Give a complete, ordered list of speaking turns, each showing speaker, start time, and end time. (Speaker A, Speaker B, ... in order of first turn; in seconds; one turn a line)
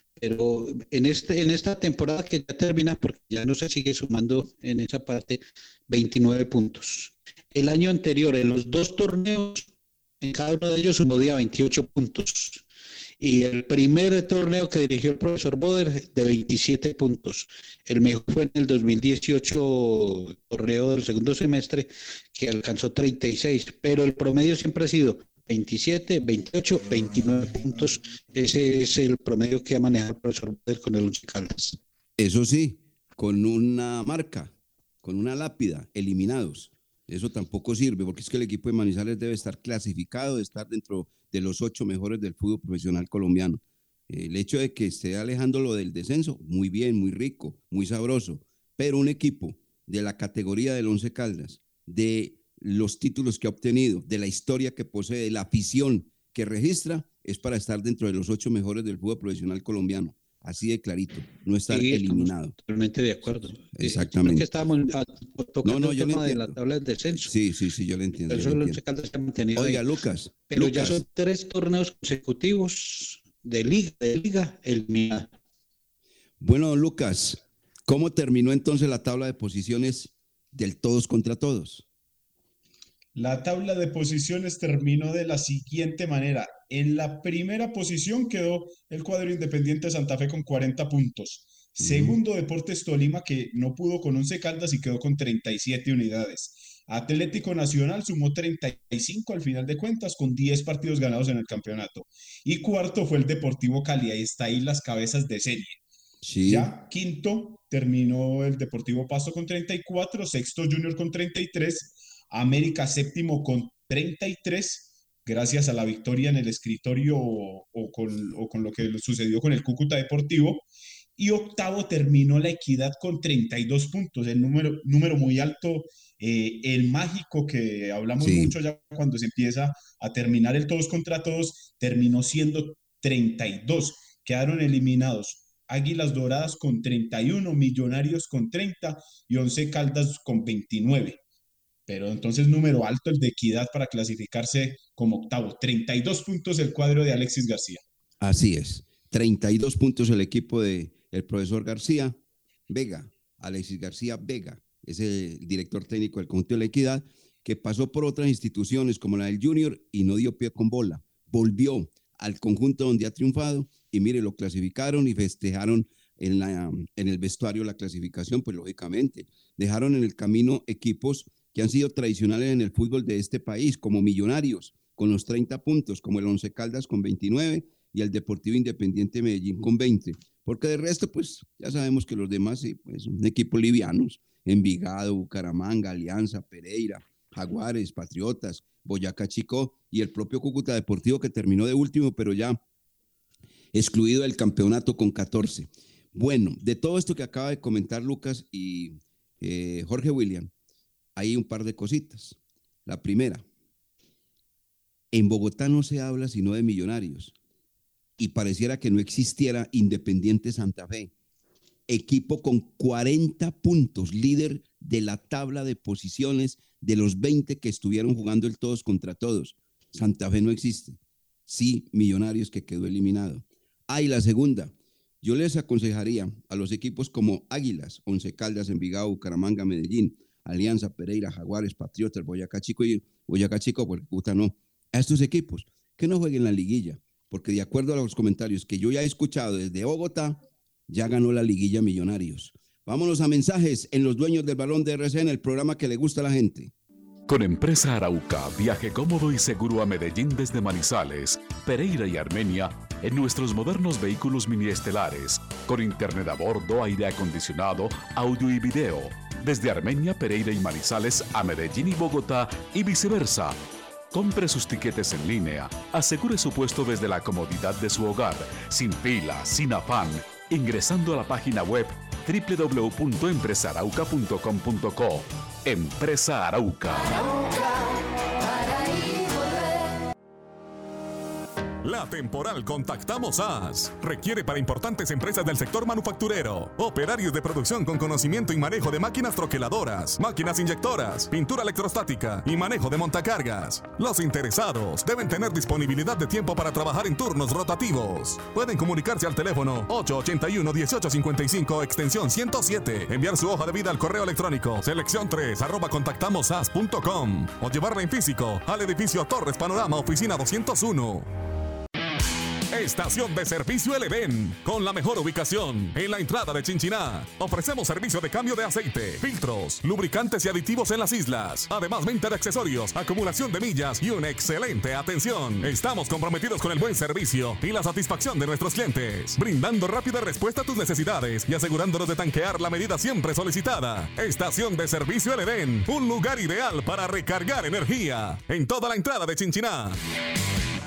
Speaker A: 0.2-9.7
Speaker A: 10.2-12.6
Speaker A: 13.2-31.8
Speaker B: 32.2-62.6
Speaker A: 61.7-67.3
Speaker B: 63.6-64.5
Speaker B: 65.6-66.6
Speaker B: 67.2-68.8
Speaker A: 68.3-69.8
Speaker B: 69.5-71.0
Speaker A: 70.5-75.3
Speaker B: 76.4-81.9
Speaker C: 83.2-105.8
Speaker B: 91.8-92.2
Speaker B: 106.2-106.7
Speaker C: 106.5-120.7
Speaker C: 121.2-141.2
Speaker B: 128.2-128.6
Speaker C: 141.9-147.8
Speaker B: 148.2-152.2
Speaker B: 152.7-192.6
Speaker B: 193.7-200.5
Speaker B: 201.2-203.4
Speaker B: 205.1-207.3
Speaker B: 208.2-211.1
Speaker B: 211.9-246.7
Speaker D: 247.3-263.6
Speaker D: 264.1-277.2
Speaker E: 281.8-311.3
Speaker E: 312.7-340.0